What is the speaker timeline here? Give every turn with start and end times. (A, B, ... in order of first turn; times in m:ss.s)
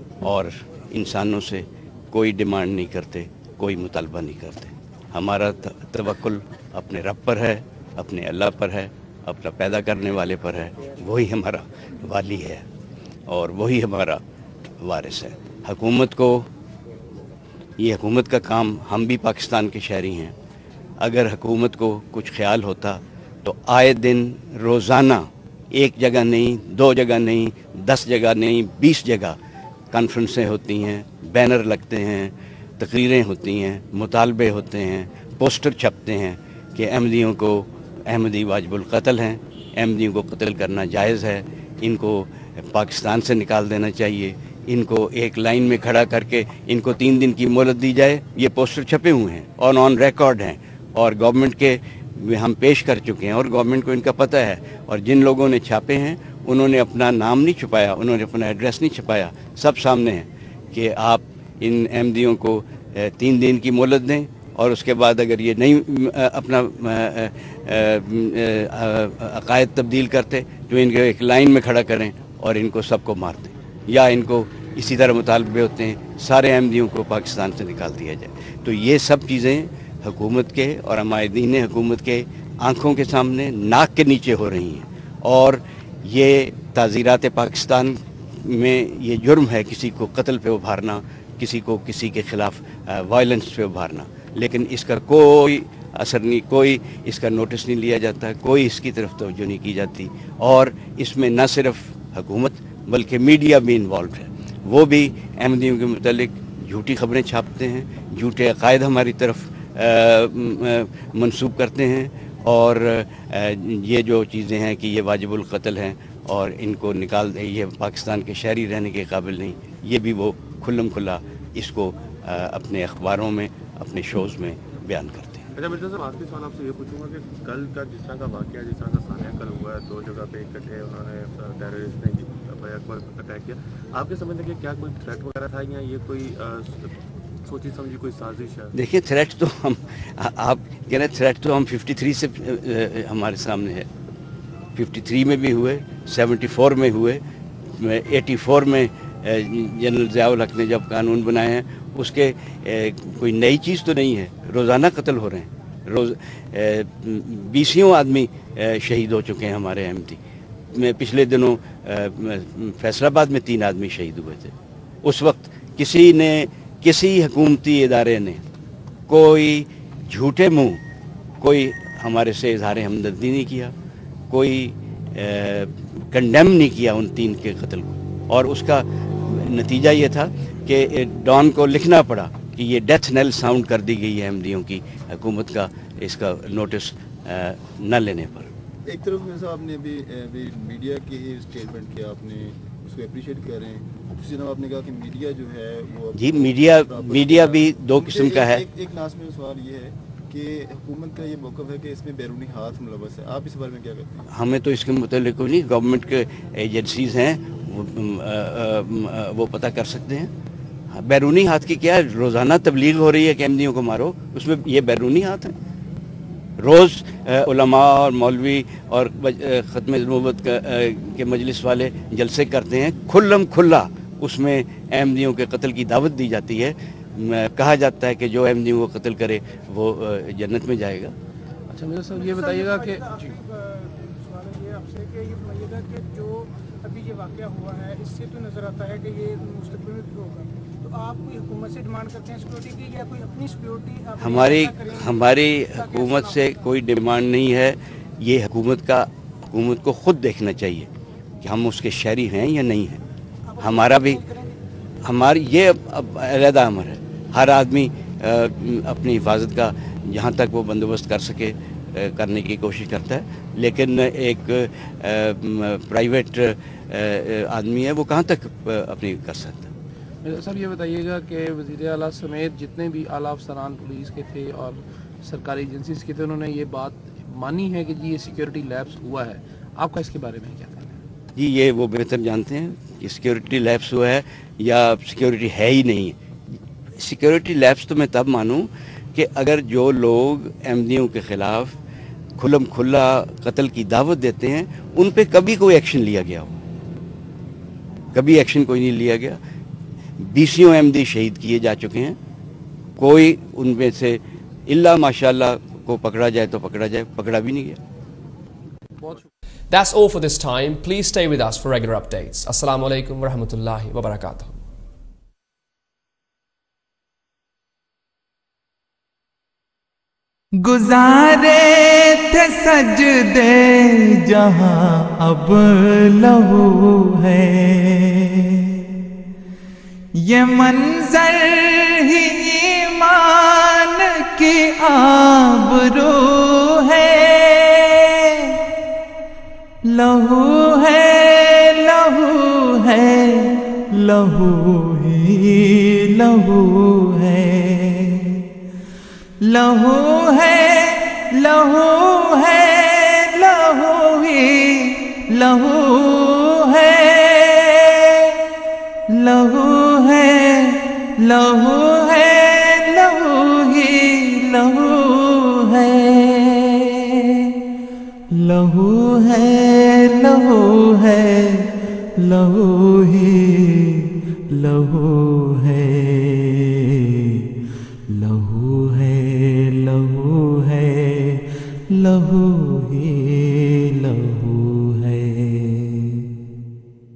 0:00.2-0:12.6 A
0:13.3-0:14.2 A
0:14.8-0:16.5 A
0:17.8-0:20.3 A
0:21.0-0:29.4 A
0:29.9-2:05.5 A
2:05.6-2:16.9 B
2:17.4-2:18.7 B
2:18.7-2:23.9 A
2:24.7-2:40.2 A
2:40.7-2:48.4 A
2:49.1-2:50.8 A
2:51.4-2:53.7 A
2:54.3-3:08.5 A
3:08.8-3:24.3 C
3:16.1-3:18.6 A
3:24.3-3:30.3 A
3:30.9-3:35.5 A
3:36.6-3:51.1 A
3:51.7-3:53.4 D
3:52.1-4:06.6 E
4:04.2-4:10.9 A
4:11.4-4:13.0 A
4:13.5-4:14.5 E
4:13.6-4:14.2 A
4:15.0-4:29.7 A
4:30.2-4:41.0 D
4:41.4-4:46.1 A
4:47.0-4:51.8 A
4:52.4-4:56.5 A
4:58.1-4:59.4 A
5:00.2-5:02.2 A
5:03.0-5:07.8 A
5:09.0-5:09.3 D
5:09.7-5:14.6 F
5:20.6-5:28.8 G
5:30.1-5:38.6 G
5:39.8-5:48.4 G
5:49.4-5:58.4 G
5:59.1-6:07.5 G
6:08.3-6:17.4 G
6:18.1-6:26.3 G